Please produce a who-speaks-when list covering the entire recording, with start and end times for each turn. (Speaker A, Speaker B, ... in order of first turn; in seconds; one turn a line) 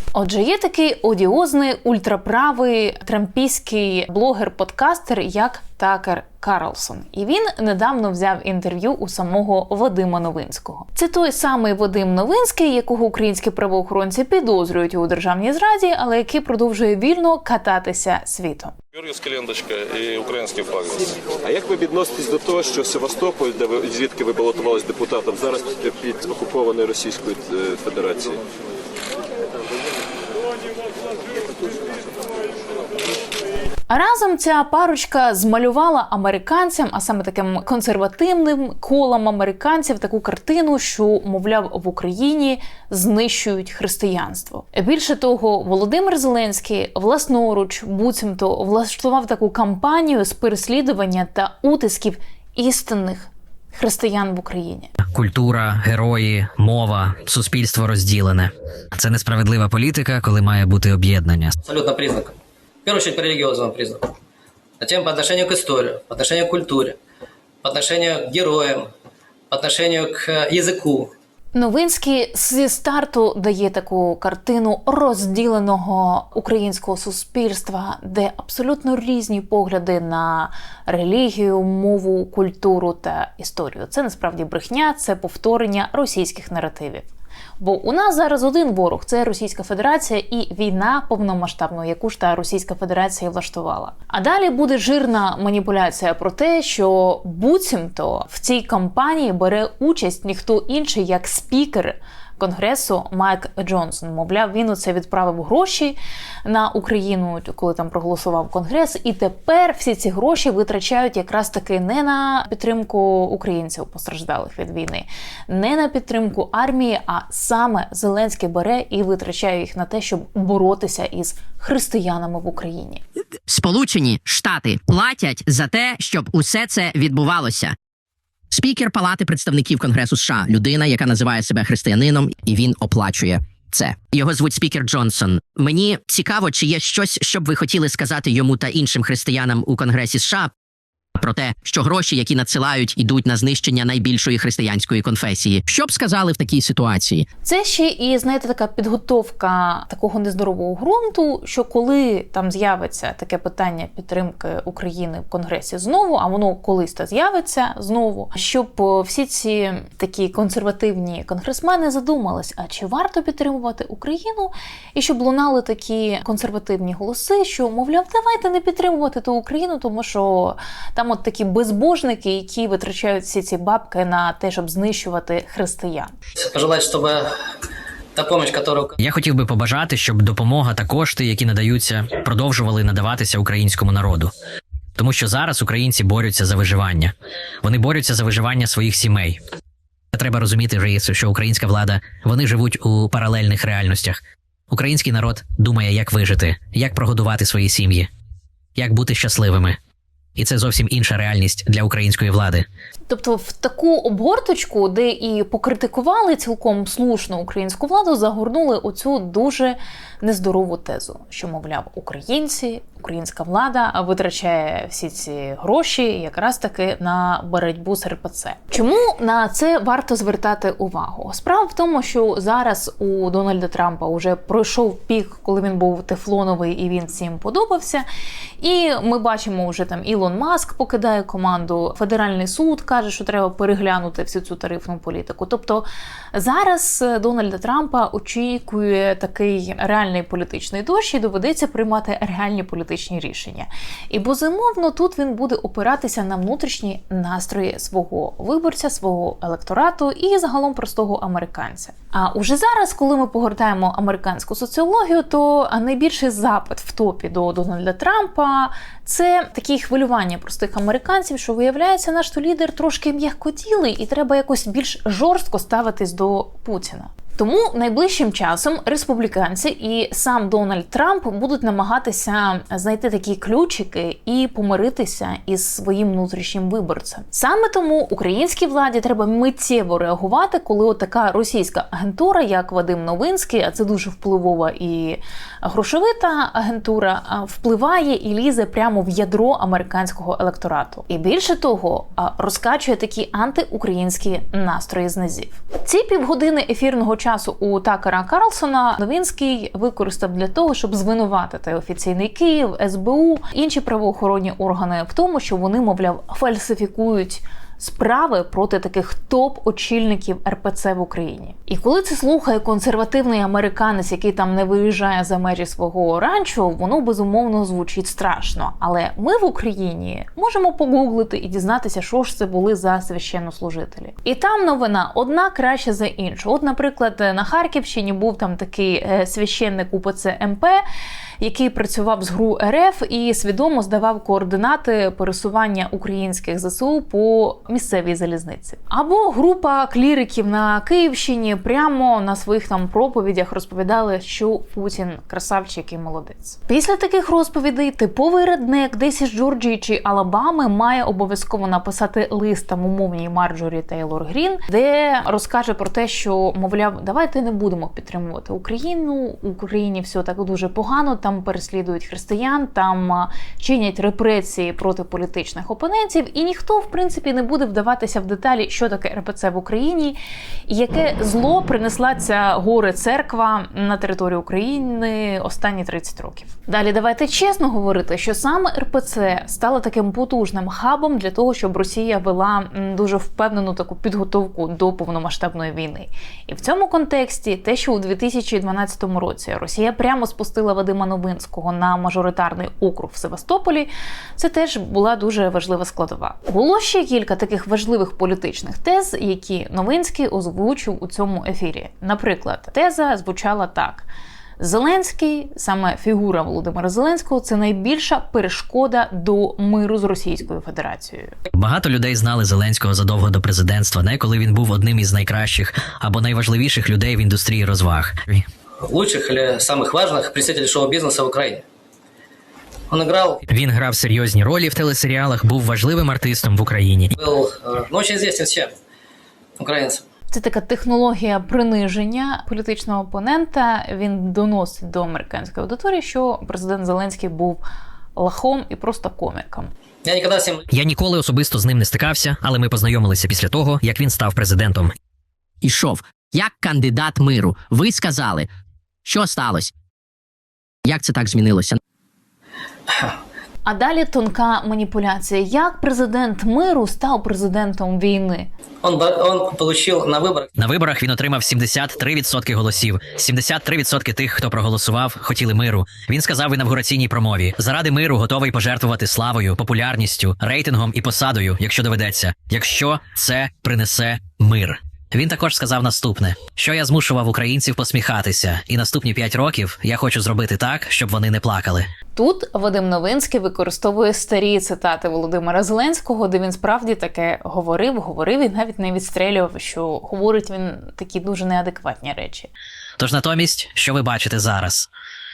Speaker A: 0.1-18.8
Speaker B: 18.9-21.1
Speaker C: 21.4-28.4
Speaker A: 33.9-54.9
Speaker D: 55.1-61.6
Speaker E: 61.6-64.2
Speaker E: 64.8-67.0
Speaker E: 67.6-68.9
Speaker E: 69.5-71.1
Speaker A: 71.5-87.1
Speaker A: 87.6-123.0
Speaker F: 123.5-127.8
Speaker F: 128.5-140.5
Speaker F: 141.2-147.3
Speaker A: 147.4-176.1
Speaker E: 176.4-177.4
Speaker E: 178.2-178.9
Speaker D: 179.0-184.3
Speaker D: 185.0-189.4
Speaker D: 190.1-194.2
Speaker D: 194.7-198.1
Speaker D: 198.8-199.8
Speaker D: 200.4-202.7
Speaker A: 203.1-228.1
Speaker A: 228.6-330.8
Speaker A: 331.4-404.1
Speaker A: 404.6-411.3
Speaker D: 411.6-418.5
Speaker E: 418.8-421.6
Speaker E: 422.9-423.4
Speaker D: 423.5-427.1
Speaker E: 427.2-428.7
Speaker E: 429.6-430.0
Speaker A: 430.3-437.6
Speaker A: 438.2-439.7
Speaker E: 440.1-440.6
Speaker D: 440.7-444.9
Speaker F: 445.6-448.5
Speaker F: 449.1-449.7
Speaker F: 450.9-451.8
Speaker E: 452.9-453.2
Speaker A: 453.6-458.5
Speaker E: 458.8-460.5
Speaker D: 460.6-481.9
Speaker A: 482.2-492.5
Speaker D: 493.0-494.9